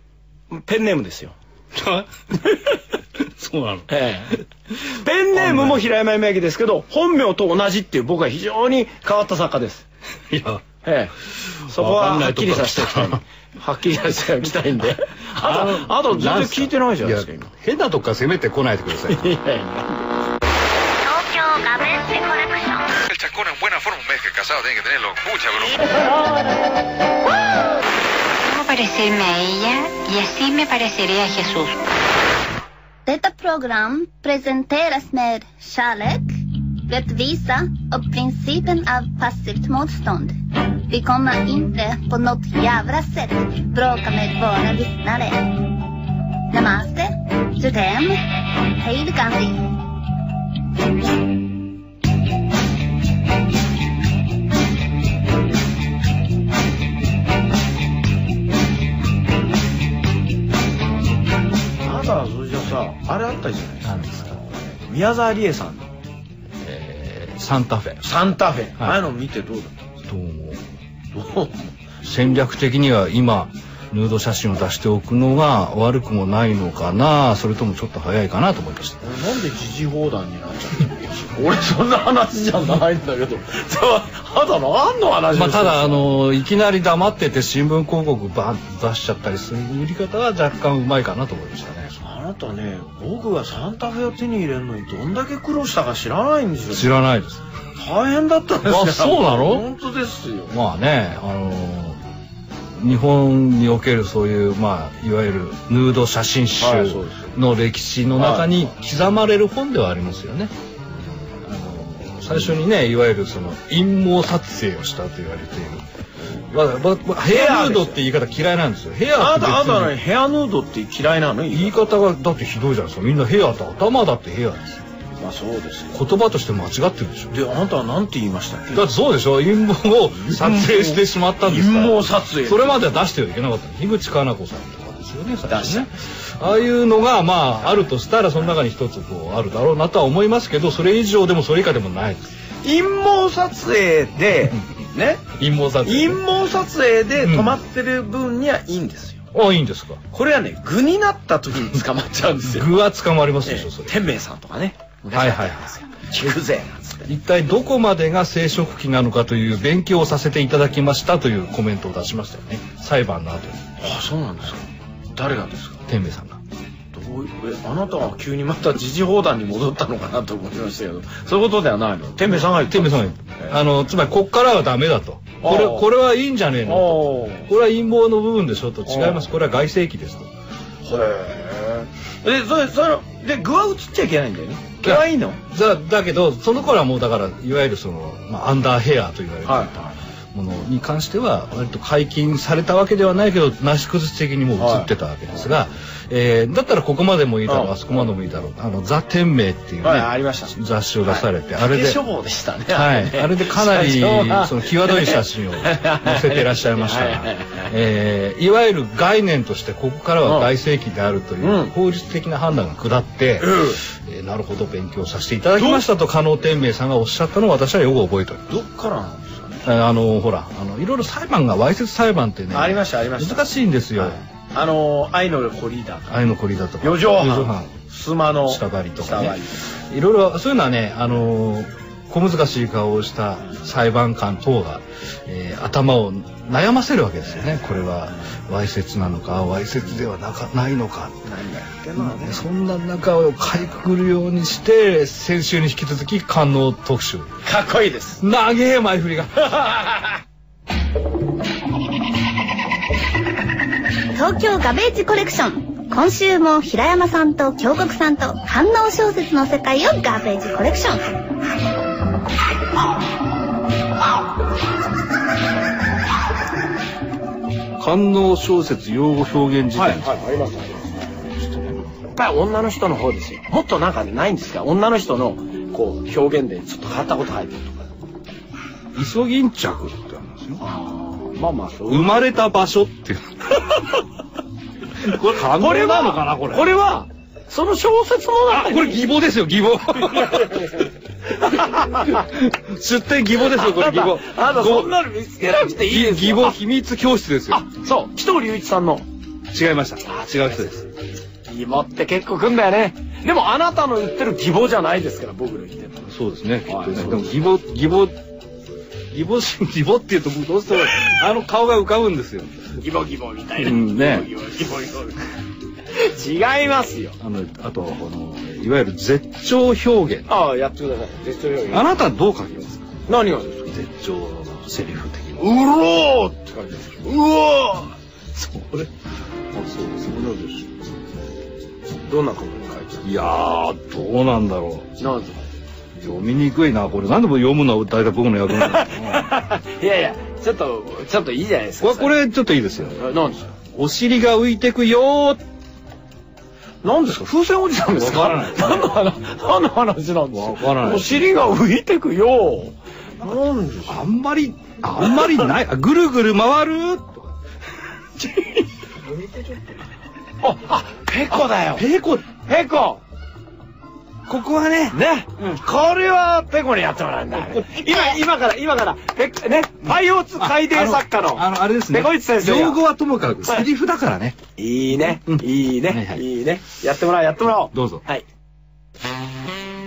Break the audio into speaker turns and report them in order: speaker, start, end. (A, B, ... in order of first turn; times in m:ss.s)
0:00.5-0:01.4 A
0:01.7-0:02.6 B
0:03.2-0:03.9 B
0:03.9-0:09.9 A
0:05.3-0:05.8 B
0:10.3-0:10.6 B
0:10.8-0:11.1 A
0:11.5-0:13.2 B
0:11.7-0:17.5 A
0:15.4-0:19.2 B
0:19.1-0:20.1 A
0:21.0-0:23.0 C
0:23.1-0:26.0 D
0:28.4-0:31.8 E
0:33.0-0:36.3 C
0:36.9-0:40.3 C
0:40.9-0:45.6 C
0:46.5-0:48.2 C
0:48.7-0:49.7 C
1:01.8-1:05.9 A
1:03.8-1:04.4 B
1:06.6-1:08.0 B
1:08.0-1:09.8 A
1:10.0-1:10.6 B
1:11.1-1:11.7 A
1:12.0-1:19.0 B
1:19.0-1:26.1 A
1:25.3-1:31.9 B
1:32.0-1:37.0 A
1:36.7-1:37.4 B
1:37.8-1:40.6 A
1:38.6-1:39.7 B
1:40.5-1:42.0 B
1:42.8-1:50.5 B
1:46.6-1:47.3 A
1:48.2-1:48.5 A
1:51.5-1:55.9 B
1:56.5-2:00.0 B
1:57.2-1:58.0 A
1:59.2-2:01.8 A
2:01.5-2:04.8 B
2:05.2-2:06.0 A
2:05.9-2:07.3 B
2:07.3-2:08.8 A
2:08.7-2:22.3 B
2:10.2-2:13.0 A
2:15.5-2:15.9 A
2:22.6-2:25.3 A
2:25.4-2:26.2 B
2:25.8-2:29.3 A
2:27.2-2:27.6 B
2:29.3-2:30.0 B
2:30.1-2:32.8 A
2:32.4-2:33.9 B
2:33.4-2:37.1 A
2:35.1-2:36.3 B
2:37.1-2:43.8 B
2:43.8-2:45.8 A
2:45.9-2:46.4 B
2:46.9-2:53.6 A
2:52.5-3:00.3 B
2:55.4-2:55.9 A
2:56.7-2:57.5 A
2:58.9-2:59.2 A
3:00.8-3:05.4 A
3:04.8-3:09.8 B
3:09.4-3:10.0 A
3:10.3-3:22.0 B
3:14.6-3:14.9 A
3:17.5-3:17.7 A
3:19.8-3:27.7 A
3:22.7-3:38.5 B
3:30.2-3:30.5 A
3:31.4-3:31.7 A
3:33.4-3:33.8 A
3:35.6-3:35.8 A
3:38.5-3:39.6 A
3:39.6-3:44.2 B
3:42.5-3:46.2 A
3:46.1-3:47.8 B
3:46.8-3:49.7 A
3:48.4-4:01.2 B
3:57.3-3:58.3 A
4:01.2-4:02.4 A
4:02.0-4:07.3 B
4:07.4-4:08.2 A
4:08.2-4:09.6 B
4:09.4-4:10.2 A
4:14.1-4:21.2 C
4:27.8-4:30.2 B
4:29.8-4:30.9 A
4:31.4-4:31.8 B
4:32.2-4:37.9 A
4:38.9-4:40.6 B
4:40.6-4:42.2 A
4:41.9-4:43.6 B
4:45.0-4:46.7 B
4:45.4-4:49.1 A
4:48.5-4:50.6 B
4:49.9-4:52.3 A
4:51.5-4:54.9 B
4:53.4-4:56.6 A
4:55.8-4:57.6 B
4:57.5-4:59.1 A
4:59.5-5:00.9 B
5:00.0-5:00.7 A
5:01.4-5:06.1 A
5:06.1-5:08.2 B
5:06.6-5:07.4 A
5:09.1-5:12.7 B
5:12.8-5:15.3 A
5:13.6-5:14.3 B
5:15.9-5:17.2 A
5:17.2-5:20.3 B
5:20.3-5:21.9 A
5:21.7-5:22.9 B
5:23.1-5:23.7 A
5:23.7-5:25.6 B
5:25.4-5:27.9 A
5:28.4-5:28.9 B
5:29.5-5:30.4 B
5:30.1-5:30.6 A
5:32.1-5:33.1 A
5:33.0-5:34.9 B
5:35.0-5:35.5 A
5:36.0-5:39.3 B
5:38.5-5:42.2 A
5:41.8-5:43.0 B
5:42.8-5:43.5 A
5:43.7-5:45.4 B
5:46.8-5:54.0 A
5:47.9-5:49.0 B
5:50.3-5:51.4 B
5:53.9-5:57.3 B
5:55.1-5:55.4 A
5:58.2-5:58.6 A
6:00.4-6:01.9 A
6:01.8-6:02.3 B
6:02.4-6:03.0 A
6:04.3-6:05.6 B
6:04.9-6:12.8 A
6:07.4-6:07.6 B
6:10.4-6:14.4 B
6:14.6-6:18.2 A
6:15.3-6:16.2 B
6:17.7-6:18.0 B